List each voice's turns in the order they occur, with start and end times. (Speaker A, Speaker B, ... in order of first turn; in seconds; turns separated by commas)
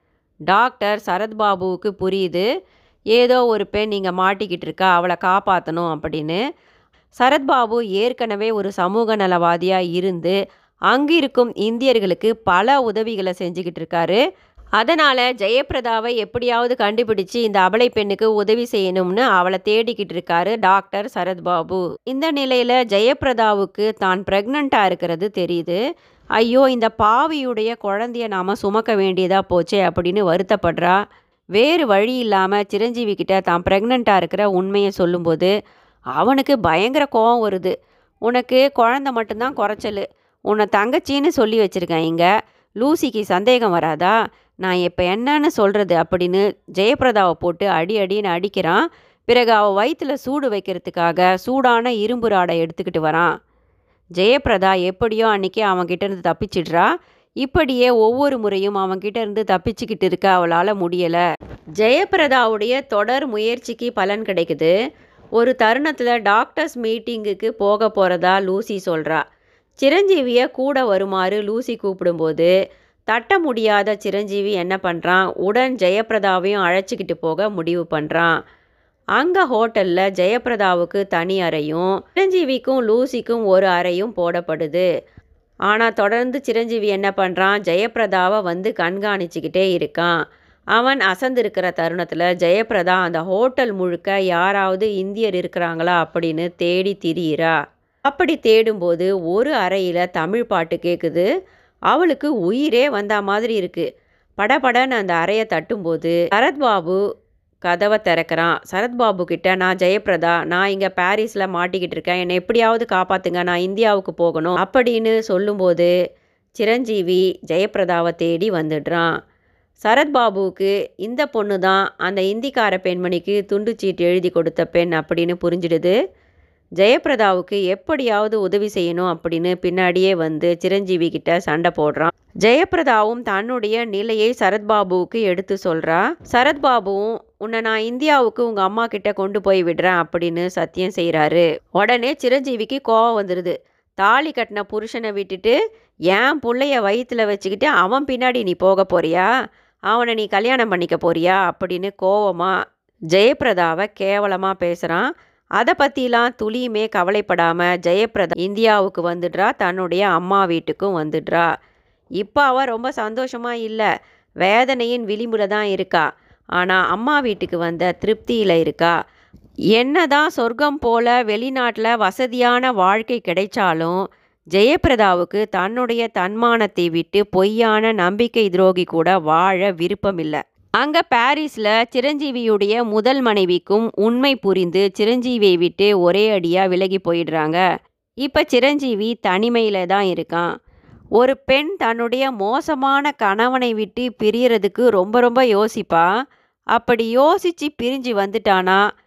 Speaker A: 0.5-2.4, Speaker A: 3.1-6.4, Speaker A: 7.2-10.4, Speaker A: 10.9-14.2, Speaker A: 14.8-25.8, Speaker A: 26.4-31.0, Speaker A: 31.6-35.5, Speaker A: 36.2-37.7, Speaker A: 38.3-42.3, Speaker A: 42.8-53.3, Speaker A: 54.2-56.9, Speaker A: 57.4-61.2, Speaker A: 61.8-64.7, Speaker A: 65.4-69.2, Speaker A: 69.8-72.5, Speaker A: 73.1-78.3, Speaker A: 79.2-84.8, Speaker A: 85.7-90.1, Speaker A: 90.8-97.5, Speaker A: 98.1-101.2, Speaker A: 101.9-103.9, Speaker A: 104.4-107.0, Speaker A: 107.7-115.9, Speaker A: 116.6-119.1, Speaker A: 119.8-126.0, Speaker A: 126.8-145.6, Speaker A: 146.1-149.2, Speaker A: 149.9-152.5, Speaker A: 153.1-155.1, Speaker A: 155.6-161.5, Speaker A: 162.2-163.9, Speaker A: 164.4-166.0, Speaker A: 166.6-168.9, Speaker A: 169.7-174.0, Speaker A: 174.5-187.6, Speaker A: 188.2-190.5, Speaker A: 191.2-196.1, Speaker A: 196.8-198.8